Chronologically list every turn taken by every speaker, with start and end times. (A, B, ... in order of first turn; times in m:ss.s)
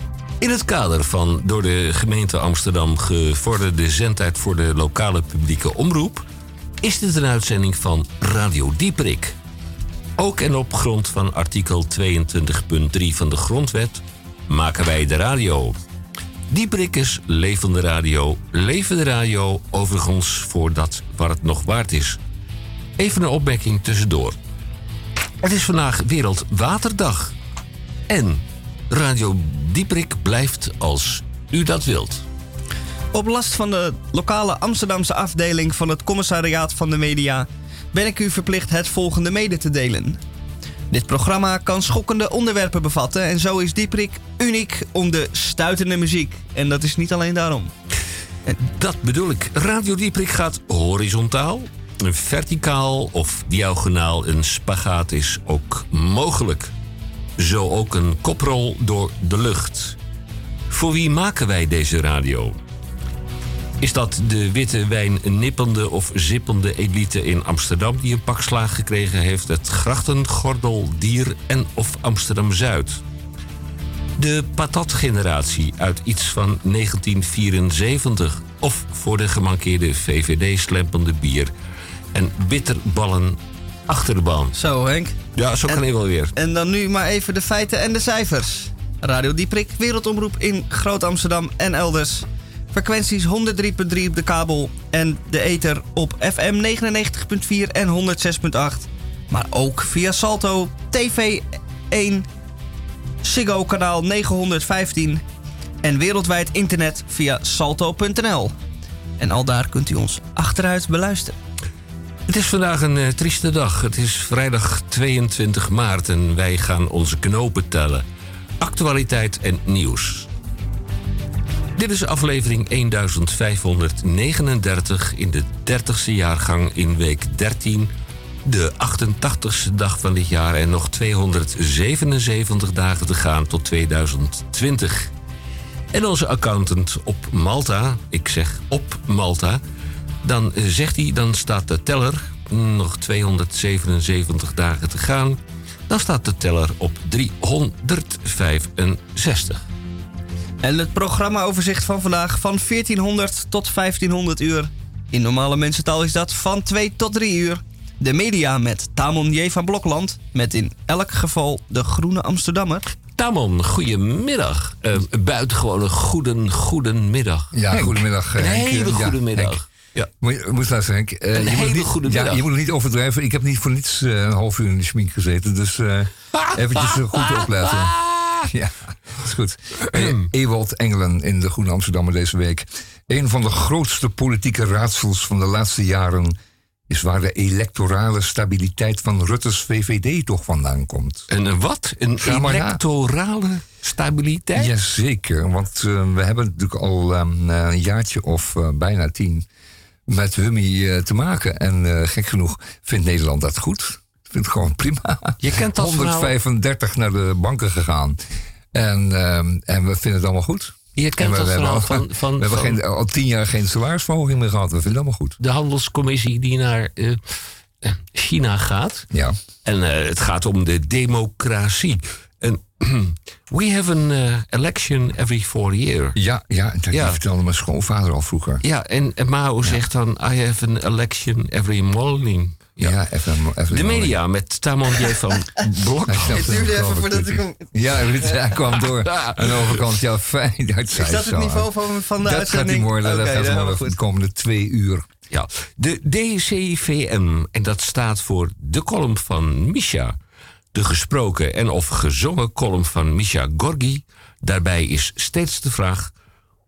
0:00.4-0:06.2 A
0:06.8-0:09.4 A
0:10.2-0:15.8 A
0:16.5-0:22.2 A
0:23.0-0:24.4 A
0:25.4-0:27.3 A
0:28.1-0:32.2 A
0:33.1-0:40.2 B
0:40.9-0:47.7 B
0:48.6-0:56.7 A
0:57.4-1:00.0 A
1:00.7-1:02.6 A
1:03.8-1:13.0 A
1:14.2-1:21.5 A
1:22.1-1:24.5 A
1:24.5-1:25.8 B
1:25.4-1:26.3 A
1:26.4-1:42.3 B
1:43.2-1:45.2 B
1:45.8-1:48.5 B
1:49.2-1:51.4 B
1:52.3-1:58.0 A
1:58.6-2:00.3 A
2:01.8-2:07.9 A
2:08.4-2:15.1 A
2:15.9-2:19.6 A
2:20.2-2:29.6 A
2:30.6-2:42.9 B
2:43.2-2:50.1 A
2:47.5-2:49.6 C
2:50.2-2:57.9 C
2:51.3-2:52.4 A
2:56.5-2:58.5 A
2:58.5-3:06.4 C
2:59.9-3:00.2 A
3:06.9-3:11.3 C
3:11.3-3:14.7 A
3:12.2-3:12.8 C
3:14.5-3:19.4 C
3:20.1-3:28.2 C
3:25.4-3:26.3 A
3:28.7-3:35.4 C
3:31.0-3:32.8 A
3:35.4-3:39.1 A
3:39.1-3:39.4 C
3:39.6-3:46.2 A
3:46.2-3:48.6 C
3:46.9-3:47.2 A
3:48.6-3:52.9 A
3:52.8-3:54.2 C
3:53.7-3:56.6 A
3:56.1-4:05.1 C
3:56.3-3:57.6 B
3:58.8-3:59.8 A
4:00.9-4:04.0 B
4:05.3-4:10.2 A
4:10.7-4:16.1 A